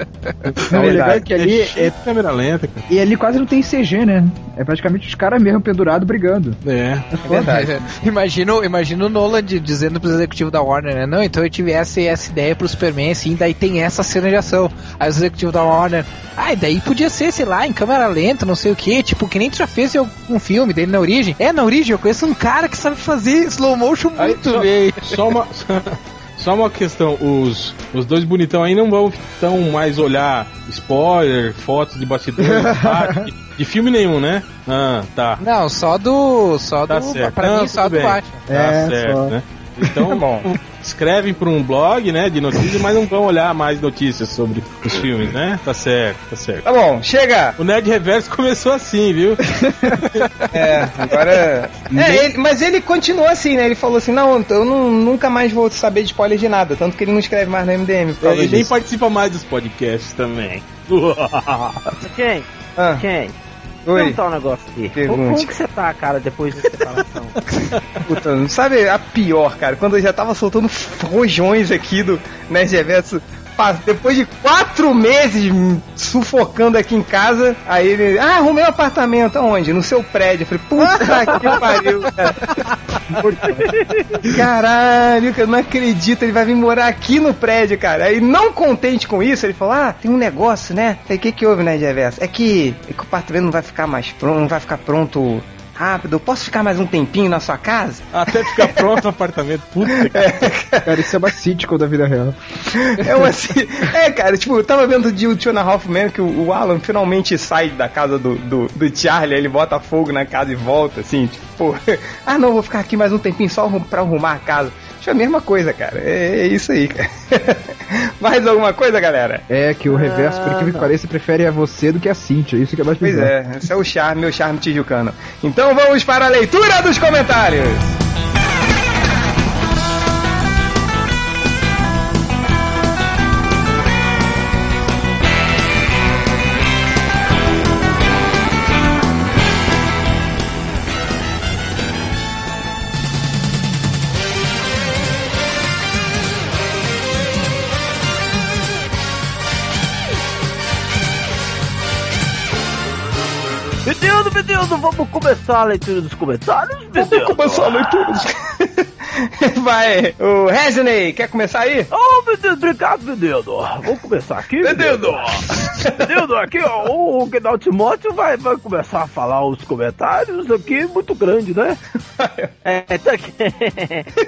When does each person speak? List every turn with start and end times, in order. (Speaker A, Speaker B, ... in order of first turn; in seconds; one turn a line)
Speaker A: 0.5-2.9
Speaker B: 0.7-1.9
Speaker C: 0.7-1.2
Speaker B: 2.9-6.6
Speaker A: 6.6-7.1
Speaker B: 7.1-7.6
Speaker C: 7.2-7.8
Speaker D: 7.3-24.9
Speaker A: 24.2-35.4
Speaker B: 32.4-33.3
Speaker D: 35.4-38.4
Speaker A: 36.9-46.6
Speaker B: 38.5-39.3
Speaker C: 40.1-40.5
Speaker C: 46.6-47.6
Speaker A: 47.6-50.3
Speaker B: 49.6-50.0
Speaker C: 50.5-58.7
Speaker A: 51.9-52.3
Speaker A: 58.2-61.9
Speaker E: 61.9-63.4
Speaker C: 62.8-63.0
Speaker C: 63.9-64.2
Speaker E: 63.9-67.4
Speaker C: 65.0-65.5
Speaker C: 68.0-82.5
Speaker A: 80.8-81.8
Speaker E: 83.5-84.0
Speaker C: 84.3-99.0
Speaker A: 98.1-100.5
Speaker C: 99.9-101.0
Speaker B: 100.8-102.4
Speaker C: 102.7-119.5
Speaker B: 103.0-103.2
Speaker B: 119.5-123.3
Speaker E: 119.9-120.9
Speaker C: 123.0-128.0
Speaker E: 153.8-157.9
Speaker C: 156.9-161.9
Speaker E: 161.9-171.8
Speaker C: 164.6-166.0
Speaker C: 172.2-172.5
Speaker E: 172.6-174.1